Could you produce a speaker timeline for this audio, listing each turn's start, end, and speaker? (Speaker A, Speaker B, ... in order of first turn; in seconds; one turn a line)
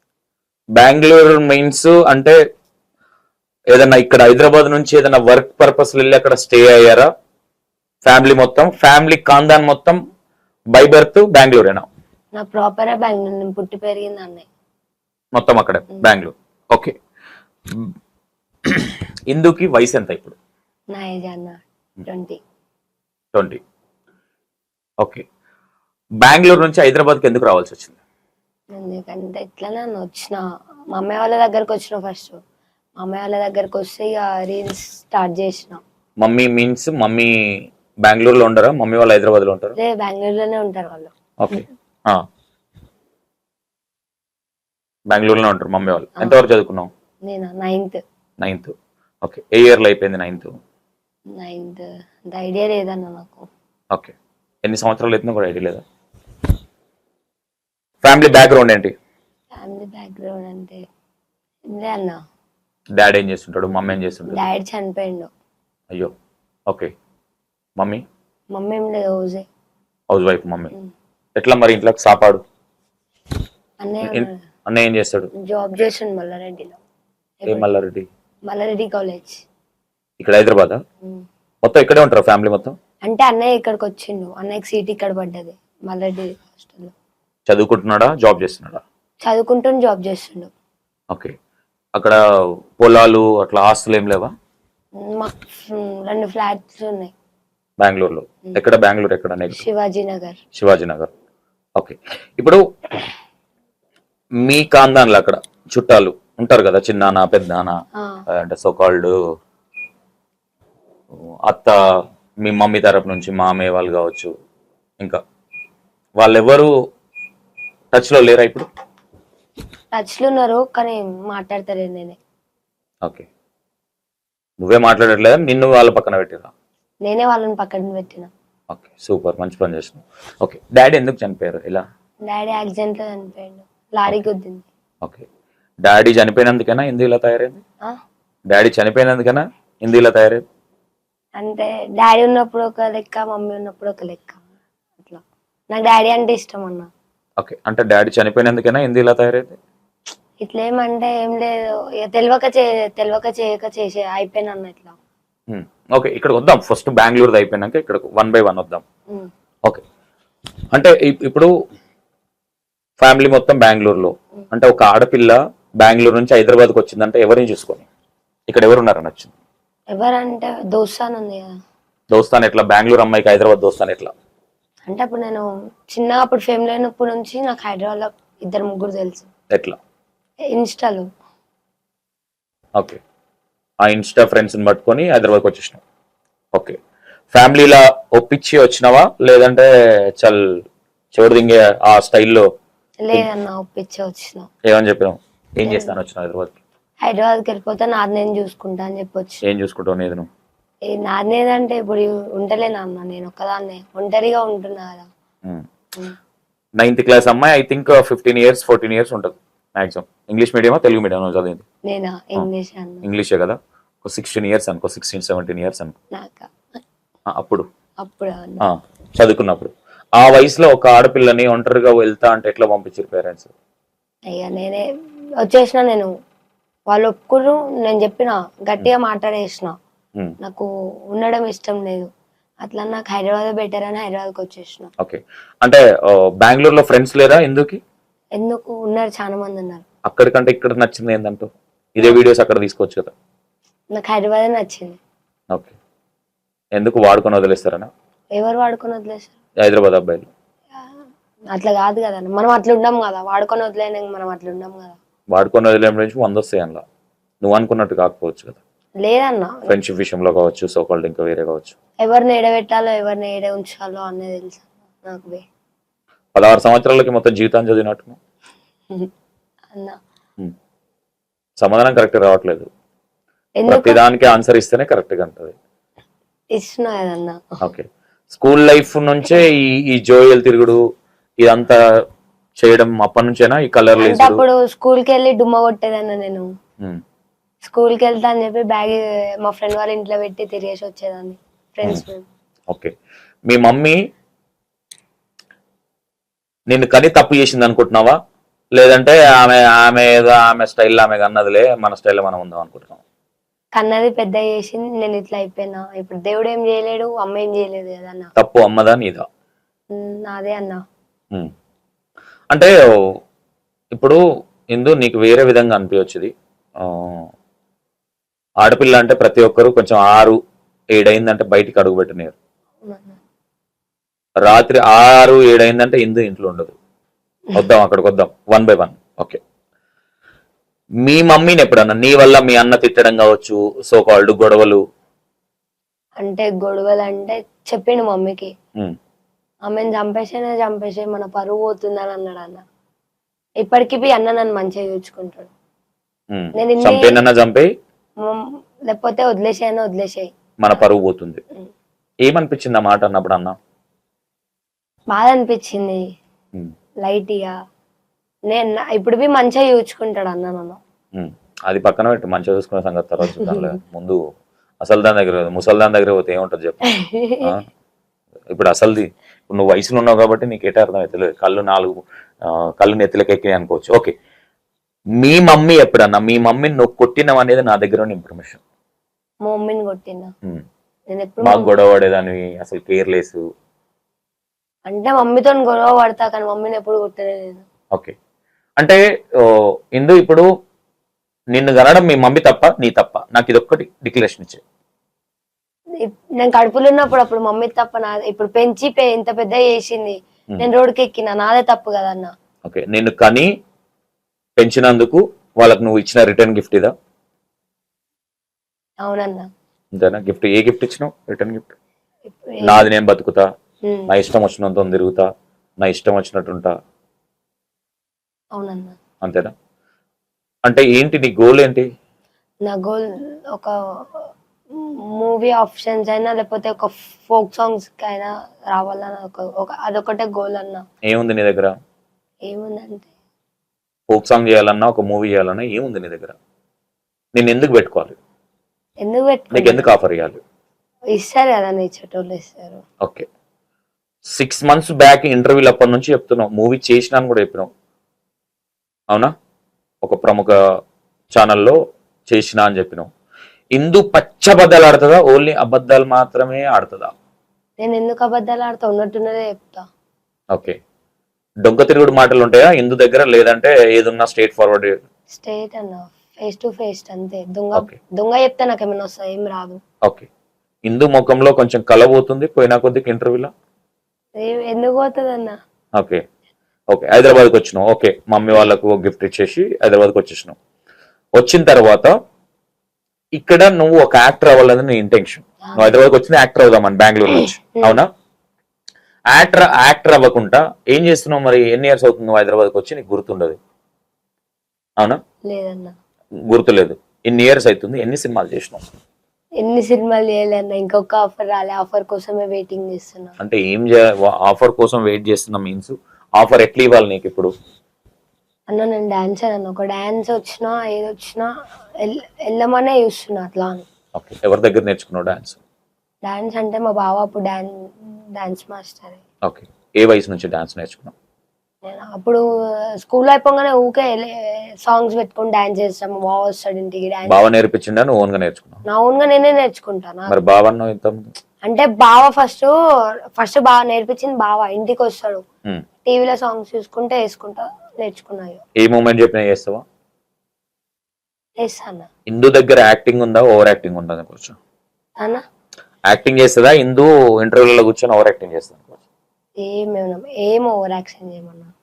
Speaker A: 0.8-2.4
Speaker A: 3.7-7.1
Speaker A: 8.0-10.0
Speaker A: 10.7-11.9
Speaker B: 12.4-14.5
Speaker A: 15.3-17.0
Speaker A: 18.7-20.4
Speaker B: 20.9-22.4
Speaker A: 23.3-23.6
Speaker A: 26.2-28.0
Speaker B: 28.8-32.4
Speaker B: 33.0-35.8
Speaker A: 36.2-39.8
Speaker B: 39.8-41.1
Speaker A: 41.4-42.2
Speaker A: 45.1-46.9
Speaker B: 47.3-48.0
Speaker A: 48.4-50.5
Speaker B: 51.4-53.5
Speaker A: 53.9-55.8
Speaker A: 58.0-58.9
Speaker B: 59.5-60.8
Speaker B: 61.7-62.2
Speaker A: 63.0-64.5
Speaker B: 64.3-65.3
Speaker A: 67.8-68.0
Speaker B: 68.5-69.5
Speaker A: 70.1-70.7
Speaker A: 71.4-72.4
Speaker B: 73.8-74.3
Speaker A: 74.0-75.3
Speaker B: 75.4-76.8
Speaker B: 77.4-77.7
Speaker A: 77.5-78.1
Speaker B: 78.5-79.4
Speaker A: 80.2-80.8
Speaker A: 81.6-82.8
Speaker B: 83.1-86.9
Speaker A: 87.5-88.8
Speaker B: 89.2-90.5
Speaker A: 92.8-94.3
Speaker B: 95.0-97.1
Speaker A: 97.8-99.6
Speaker B: 99.5-100.4
Speaker A: 100.5-101.1
Speaker A: 101.8-102.6
Speaker A: 104.4-107.8
Speaker A: 108.3-109.1
Speaker A: 111.5-111.8
Speaker A: 112.4-114.3
Speaker A: 116.2-116.7
Speaker A: 117.9-118.7
Speaker B: 119.9-122.2
Speaker A: 124.6-126.5
Speaker B: 127.0-128.3
Speaker A: 128.7-131.8
Speaker B: 132.3-134.7
Speaker A: 135.8-137.6
Speaker A: 138.5-140.4
Speaker B: 141.4-144.4
Speaker B: 145.0-146.9
Speaker A: 147.4-149.6
Speaker B: 150.4-155.0
Speaker A: 155.5-158.8
Speaker A: 160.7-161.5
Speaker A: 163.0-167.9
Speaker A: 168.5-169.3
Speaker B: 169.9-171.5
Speaker A: 172.1-174.1
Speaker B: 174.9-179.3
Speaker A: 179.5-179.8
Speaker B: 180.5-181.1
Speaker A: 183.8-185.8
Speaker A: 187.3-192.5
Speaker B: 193.0-194.5
Speaker A: 194.7-196.6
Speaker B: 195.7-196.0
Speaker B: 197.0-199.4
Speaker A: 199.4-200.3
Speaker B: 200.9-205.1
Speaker A: 206.8-211.7
Speaker B: 211.9-213.1
Speaker A: 213.0-215.9
Speaker B: 216.1-216.5
Speaker A: 217.3-217.7
Speaker B: 218.0-218.6
Speaker A: 218.6-223.5
Speaker B: 224.3-224.9
Speaker B: 225.4-226.1
Speaker B: 226.9-229.8
Speaker B: 230.4-232.1
Speaker B: 232.6-234.9
Speaker A: 235.0-237.8
Speaker B: 238.4-239.8
Speaker A: 240.1-243.1
Speaker B: 243.9-245.0
Speaker A: 246.8-247.9
Speaker B: 248.4-249.3
Speaker A: 249.6-250.3
Speaker B: 251.5-255.0
Speaker A: 255.3-256.8
Speaker A: 257.4-258.6
Speaker B: 259.0-259.8
Speaker A: 259.7-261.8
Speaker B: 262.0-265.4
Speaker A: 266.4-268.2
Speaker B: 269.7-270.0
Speaker A: 271.6-272.7
Speaker B: 273.6-274.0
Speaker A: 273.7-275.6
Speaker B: 276.6-277.4
Speaker A: 277.6-280.8
Speaker A: 281.4-281.8
Speaker A: 282.6-284.4
Speaker B: 284.0-286.5
Speaker B: 287.6-292.3
Speaker A: 293.5-294.0
Speaker A: 296.7-298.2
Speaker A: 298.8-303.0
Speaker B: 303.8-308.3
Speaker A: 308.4-309.3
Speaker B: 309.9-310.8
Speaker A: 312.5-313.1
Speaker A: 313.9-314.2
Speaker A: 314.7-317.3
Speaker A: 318.6-320.4
Speaker A: 320.9-322.4
Speaker B: 322.8-323.2
Speaker A: 324.4-326.8
Speaker A: 327.5-329.4
Speaker A: 331.0-334.8
Speaker B: 336.2-338.5
Speaker B: 339.7-342.6
Speaker B: 343.6-345.5
Speaker A: 346.3-347.7
Speaker B: 346.6-347.2
Speaker B: 348.2-350.3
Speaker A: 350.6-351.4
Speaker A: 352.3-353.6
Speaker B: 355.1-356.0
Speaker B: 357.0-357.5
Speaker B: 358.5-360.8
Speaker A: 361.1-364.2
Speaker B: 363.4-363.6
Speaker A: 364.8-366.9
Speaker B: 366.9-367.5
Speaker A: 368.5-374.1
Speaker A: 375.2-378.6
Speaker B: 379.4-380.3
Speaker B: 381.1-381.7
Speaker A: 381.4-383.4
Speaker B: 384.9-387.7
Speaker A: 388.8-390.5
Speaker A: 391.6-394.6
Speaker B: 396.0-402.3
Speaker A: 402.7-403.5
Speaker A: 404.6-406.9
Speaker B: 409.0-409.5
Speaker A: 409.9-411.7
Speaker B: 412.3-412.9
Speaker A: 412.6-413.4
Speaker A: 414.1-415.3
Speaker A: 415.8-416.7
Speaker B: 418.6-419.0
Speaker A: 419.2-419.5
Speaker A: 420.7-421.9
Speaker B: 422.7-430.9
Speaker A: 431.1-431.8
Speaker B: 432.5-433.1
Speaker A: 434.1-436.4
Speaker A: 437.4-438.2
Speaker B: 439.0-439.9
Speaker A: 439.5-440.4
Speaker B: 441.1-442.8
Speaker A: 443.0-443.3
Speaker A: 444.3-447.7
Speaker A: 450.0-450.6
Speaker A: 451.4-451.8
Speaker A: 452.3-453.1
Speaker A: 453.8-457.1
Speaker B: 457.8-459.9
Speaker A: 460.5-460.8
Speaker A: 461.6-465.0
Speaker B: 465.3-469.8
Speaker A: 470.9-473.5
Speaker B: 474.4-475.6
Speaker A: 476.0-476.2
Speaker A: 476.9-480.6
Speaker A: 481.4-482.1
Speaker A: 483.4-488.1
Speaker B: 485.7-485.9
Speaker A: 489.3-493.6
Speaker B: 495.5-495.9
Speaker A: 496.5-498.8
Speaker B: 499.6-503.4
Speaker A: 503.4-507.5
Speaker B: 508.7-511.5
Speaker B: 512.0-513.9
Speaker A: 514.2-515.6
Speaker B: 516.2-519.2
Speaker A: 519.5-521.1
Speaker B: 521.9-522.4
Speaker B: 523.0-527.5
Speaker A: 527.3-528.8
Speaker B: 528.9-530.4
Speaker A: 530.3-531.3
Speaker B: 531.7-532.7
Speaker B: 533.4-535.4
Speaker B: 536.1-538.6
Speaker A: 538.8-539.8
Speaker B: 541.6-542.1
Speaker A: 542.3-544.6
Speaker A: 546.1-549.0
Speaker B: 549.6-551.7